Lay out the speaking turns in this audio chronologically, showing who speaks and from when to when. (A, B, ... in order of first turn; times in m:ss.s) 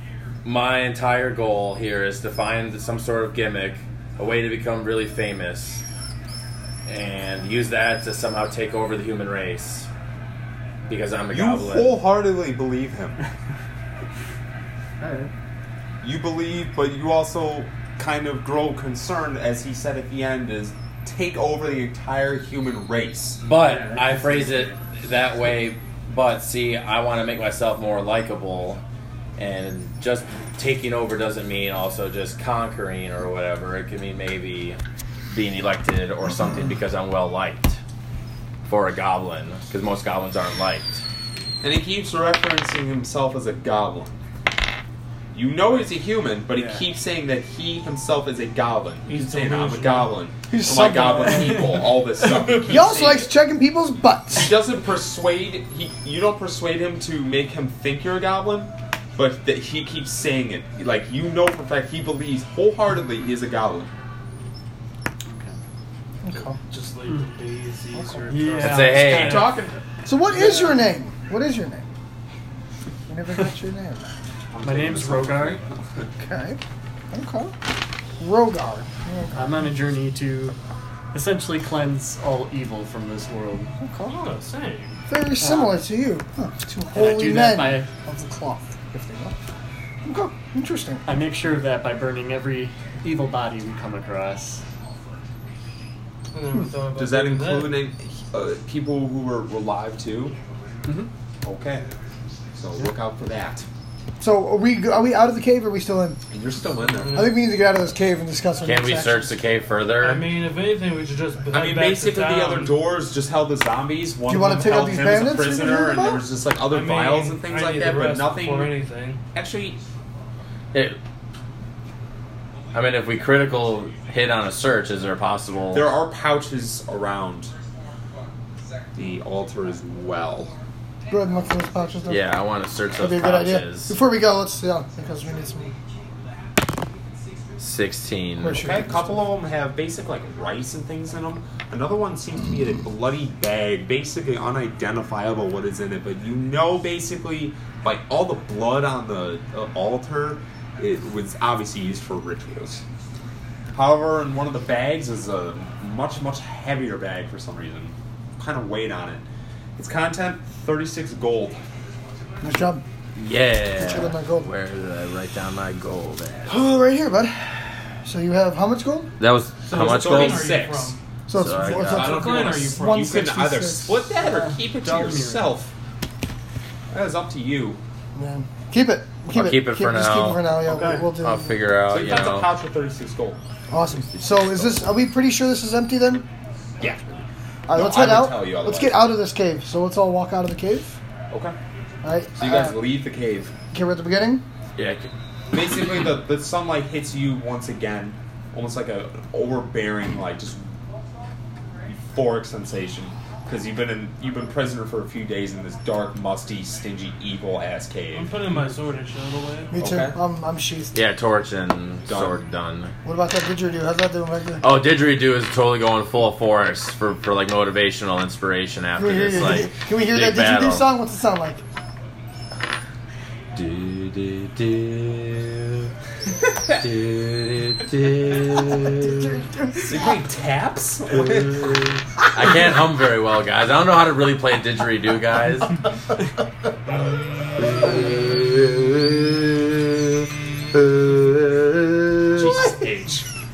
0:00.4-0:05.8 A
0:06.9-0:09.9 A
0:10.8-0:11.9 A
0:11.3-0:13.2 B
0:15.0-0:15.3 C
0:16.0-0:23.4 B
0:23.4-0:28.8 A
0:23.6-0:24.7 C
0:29.4-0:34.8 A
0:35.3-0:37.8 A
0:38.7-0:41.0 A
0:41.6-0:44.2 B
0:45.3-0:53.3 B
0:49.1-0:50.2 D
0:50.5-0:51.8 E
0:52.3-0:54.6 E
0:54.3-1:03.9 B
1:05.3-1:05.6 C
1:06.2-1:06.6 E
1:06.7-1:09.0 D
1:07.9-1:08.6 E
1:08.3-1:09.6 C
1:08.6-1:09.5 A
1:09.0-1:09.8 B
1:10.1-1:11.9 E
1:10.4-1:10.8 C
1:13.1-1:14.1 E
1:14.5-1:16.1 B
1:14.6-1:15.6 C
1:16.2-1:16.6 E
1:17.1-1:17.5 E
1:18.2-1:19.6 E
1:19.3-1:20.6 C
1:21.1-1:23.7 C
1:23.8-1:24.3 E
1:24.1-1:25.0 D
1:25.1-1:29.4 E
1:25.4-1:25.8 C
1:26.9-1:27.9 C
1:30.0-1:31.1 E
1:31.1-1:34.6 C
1:36.3-1:37.9 D
1:37.0-1:40.4 B
1:41.4-1:41.9 B
1:42.5-1:43.7 B
1:44.2-1:46.2 E
1:46.3-1:47.3 B
1:46.9-1:47.4 D
1:47.1-1:49.3 E
1:48.6-1:50.3 A
1:50.0-1:52.8 D
1:51.5-1:58.7 B
1:54.3-1:56.2 E
1:56.7-1:59.2 D
1:59.3-1:59.8 B
2:02.7-2:05.9 A
2:05.7-2:07.5 B
2:09.0-2:10.5 B
2:11.1-2:12.3 E
2:12.1-2:14.0 A
2:13.0-2:15.8 E
2:17.6-2:18.8 A
2:18.4-2:19.2 E
2:18.5-2:32.8 B
2:33.7-2:39.2 B
2:39.8-2:41.6 B
2:42.4-2:42.8 E
2:43.2-2:46.6 A
2:43.8-2:44.5 E
2:46.5-2:49.1 E
2:49.2-2:50.6 A
2:49.6-2:51.0 D
2:49.7-2:51.0 B
2:51.3-2:54.1 E
2:51.3-2:52.2 A
2:51.7-2:55.7 B
2:51.9-2:53.2 D
2:54.2-2:55.5 C
2:56.9-2:57.8 B
2:58.2-3:01.5 E
2:59.3-3:00.4 A
3:00.7-3:01.1 C
3:01.0-3:02.5 A
3:01.9-3:03.4 B
3:03.7-3:06.3 E
3:04.0-3:04.8 A
3:06.8-3:09.1 B
3:07.7-3:11.0 E
3:11.3-3:11.6 B
3:12.0-3:12.8 E
3:12.4-3:13.5 B
3:13.7-3:14.4 E
3:14.8-3:15.1 A
3:15.5-3:20.7 B
3:21.9-3:28.3 B
3:28.1-3:29.7 D
3:29.7-3:31.0 E
3:29.8-3:30.2 B
3:30.9-3:32.9 A
3:32.1-3:32.4 B
3:33.0-3:34.6 E
3:34.6-3:40.8 A
3:39.0-3:41.6 E
3:43.5-3:45.9 A
3:46.7-3:49.3 A
3:48.9-3:50.2 E
3:49.8-3:52.0 B
3:52.3-3:55.8 A
3:57.6-3:59.8 A
4:00.7-4:02.5 A
4:02.3-4:03.3 B
4:02.4-4:03.0 E